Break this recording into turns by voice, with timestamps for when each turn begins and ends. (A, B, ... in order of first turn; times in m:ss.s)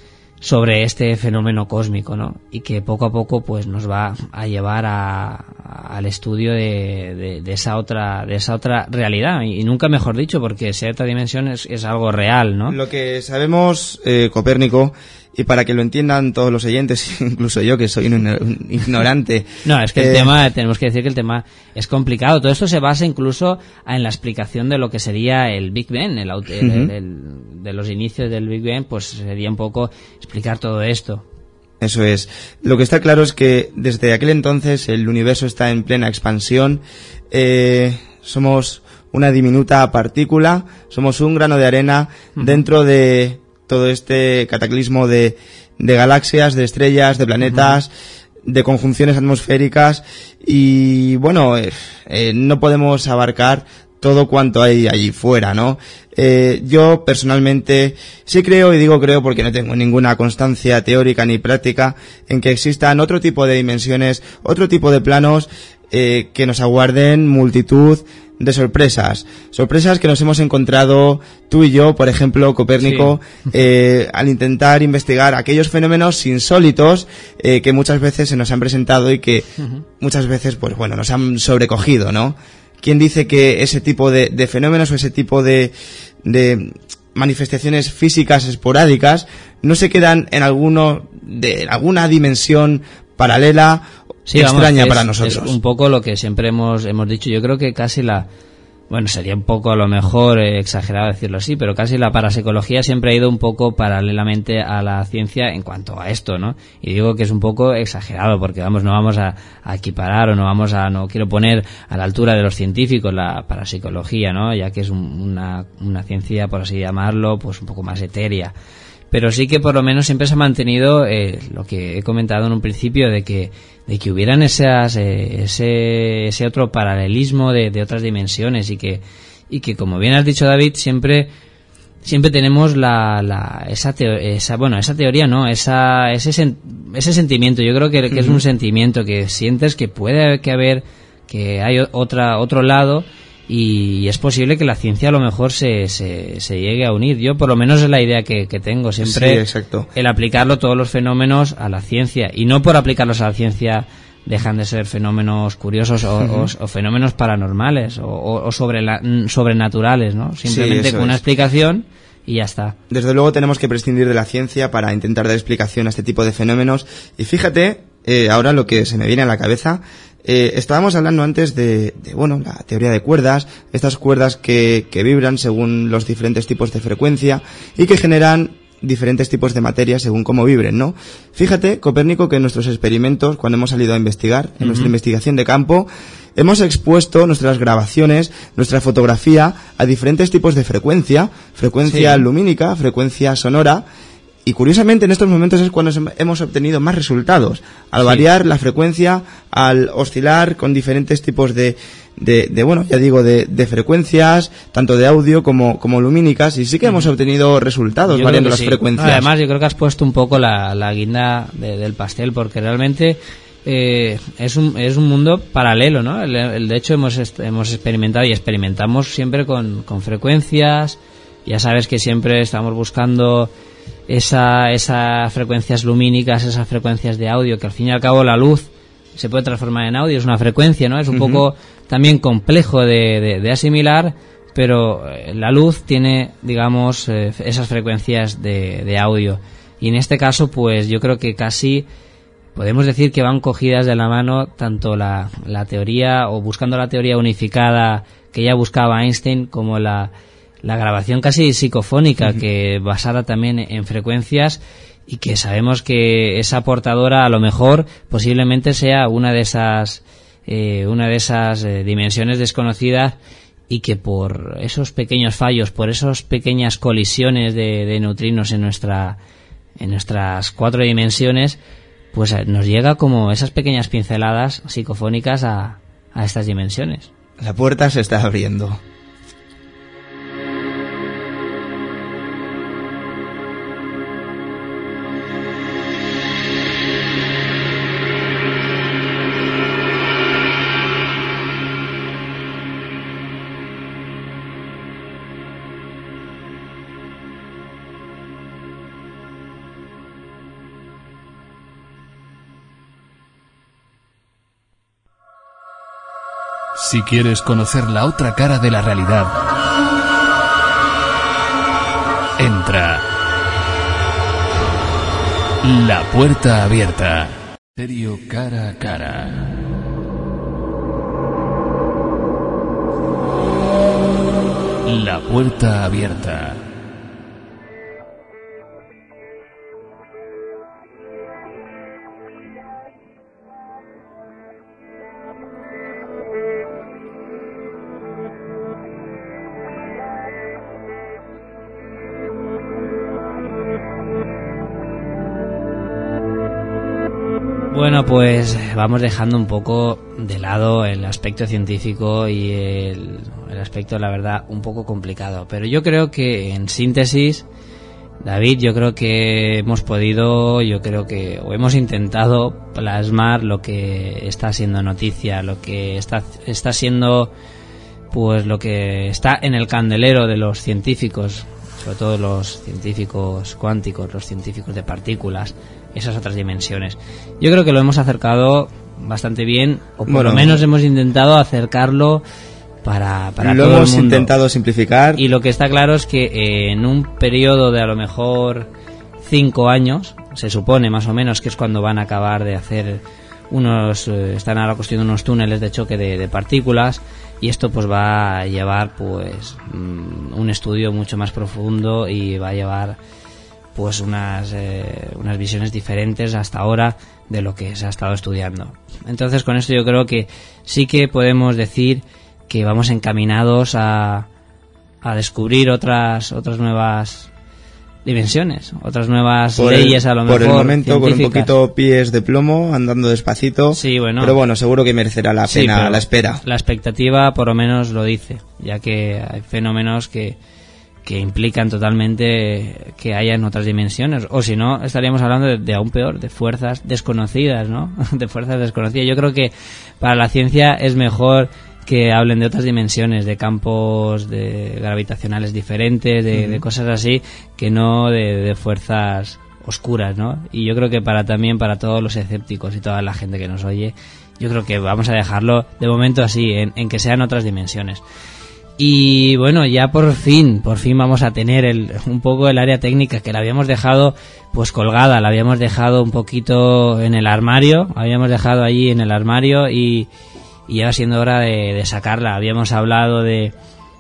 0:00.4-0:12.8 A
0:12.7-0:20.3 B
0:19.6-0:31.2 A
0:26.6-0:26.9 B
0:31.8-0:47.9 B
0:42.4-0:42.6 A
0:47.4-0:47.8 A
0:48.5-1:19.5 B
1:12.8-1:13.2 A
1:20.0-1:35.6 B
1:34.3-1:38.3 A
1:38.9-1:58.5 A
1:59.1-2:11.3 A
2:12.0-2:29.4 A
2:18.1-2:18.4 B
2:29.0-2:29.9 B
2:29.9-2:42.8 A
2:36.2-2:36.5 B
2:40.4-2:41.2 B
2:42.9-3:13.8 B
3:04.6-3:04.9 A
3:11.9-3:12.2 A
3:14.4-3:29.3 B
3:28.1-3:43.5 A
3:44.1-4:01.9 A
3:51.1-3:51.4 B
4:02.6-4:10.1 A
4:10.6-4:23.2 A
4:23.7-4:29.2 A
4:29.8-4:31.6 A
4:32.1-4:37.1 A
4:37.4-4:38.8 B
5:06.8-5:09.3 C
5:12.4-5:13.1 C
5:15.6-5:19.5 C
5:24.9-5:26.6 C
5:47.7-5:57.5 A
5:58.2-6:07.3 A
6:08.1-6:22.2 A
6:20.1-6:20.6 B
6:22.8-6:24.3 A
6:23.4-6:25.2 B
6:25.2-6:28.7 A
6:29.2-6:43.0 A
6:43.7-6:54.3 A
6:55.0-6:57.3 A
6:58.0-7:01.5 A
6:59.6-7:06.4 B
7:03.7-7:04.4 A
7:05.5-7:10.4 A
7:11.0-7:38.0 A
7:26.3-7:26.6 B
7:38.8-7:50.1 A
7:50.7-7:53.5 A